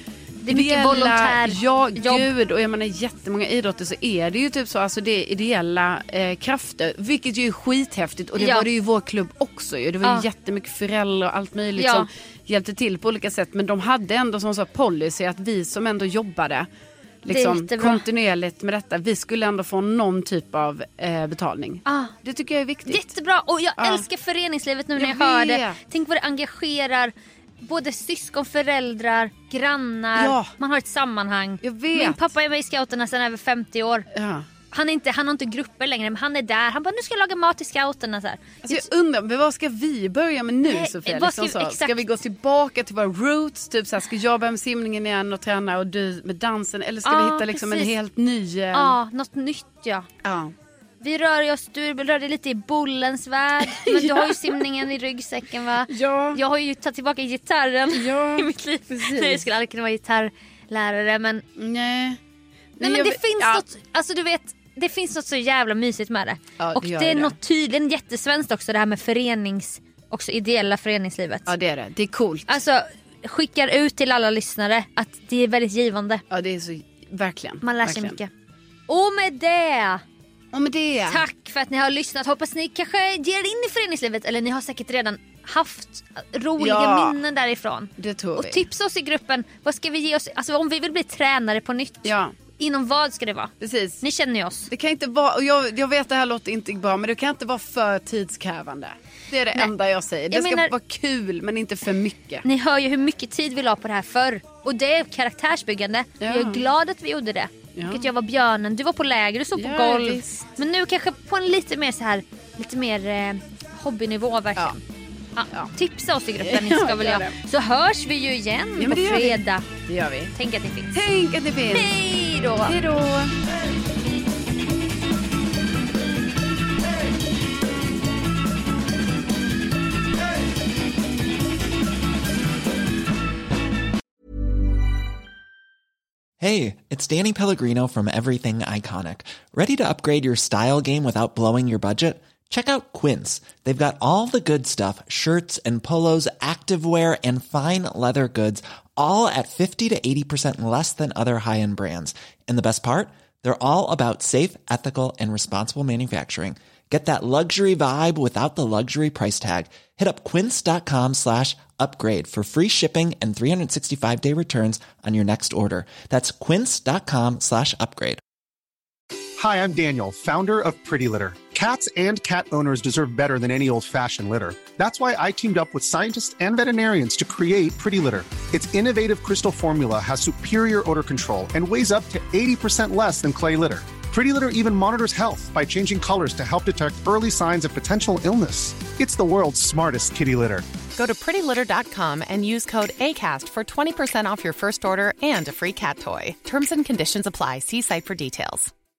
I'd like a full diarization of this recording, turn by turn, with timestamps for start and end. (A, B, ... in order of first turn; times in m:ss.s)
0:00.4-0:02.3 A
0:00.5-0:16.7 B
0:08.4-0:08.7 A
0:11.8-0:12.1 A
0:17.2-0:23.1 B
0:17.3-0:18.0 A
0:21.8-0:22.1 A
0:22.9-0:34.0 A
0:23.8-0:24.0 B
0:25.0-0:25.8 B
0:30.1-0:30.5 B
0:31.6-0:32.3 B
0:34.1-0:34.5 B
0:34.7-0:38.8 A
0:38.6-0:49.0 B
0:40.6-0:42.0 A
0:47.0-0:47.9 A
0:48.7-0:50.1 A
0:50.2-0:50.5 B
0:51.0-1:01.4 A
0:53.7-0:54.6 B
0:55.9-0:56.4 B
0:57.9-0:59.5 B
1:01.6-1:02.2 B
1:02.8-1:03.6 B
1:02.8-1:11.5 A
1:06.6-1:07.3 B
1:11.5-1:12.5 B
1:12.5-1:16.2 A
1:16.3-1:18.2 B
1:17.6-1:18.3 A
1:18.9-1:20.0 A
1:20.5-1:21.2 B
1:21.1-1:34.7 A
1:26.6-1:27.2 B
1:28.0-1:28.6 B
1:32.0-1:32.3 B
1:33.6-1:34.0 B
1:34.7-1:42.4 B
1:40.3-1:40.7 A
1:42.4-1:54.8 A
1:46.2-1:46.6 B
1:47.8-1:48.0 B
1:49.5-1:50.5 B
1:55.4-1:59.7 A
1:56.4-1:57.4 B
1:58.8-2:00.3 B
2:00.3-2:00.9 A
2:00.9-2:02.0 B
2:01.7-2:02.8 A
2:02.6-2:03.3 B
2:16.4-2:48.2 C
2:49.4-3:10.6 D
3:10.9-3:18.7 E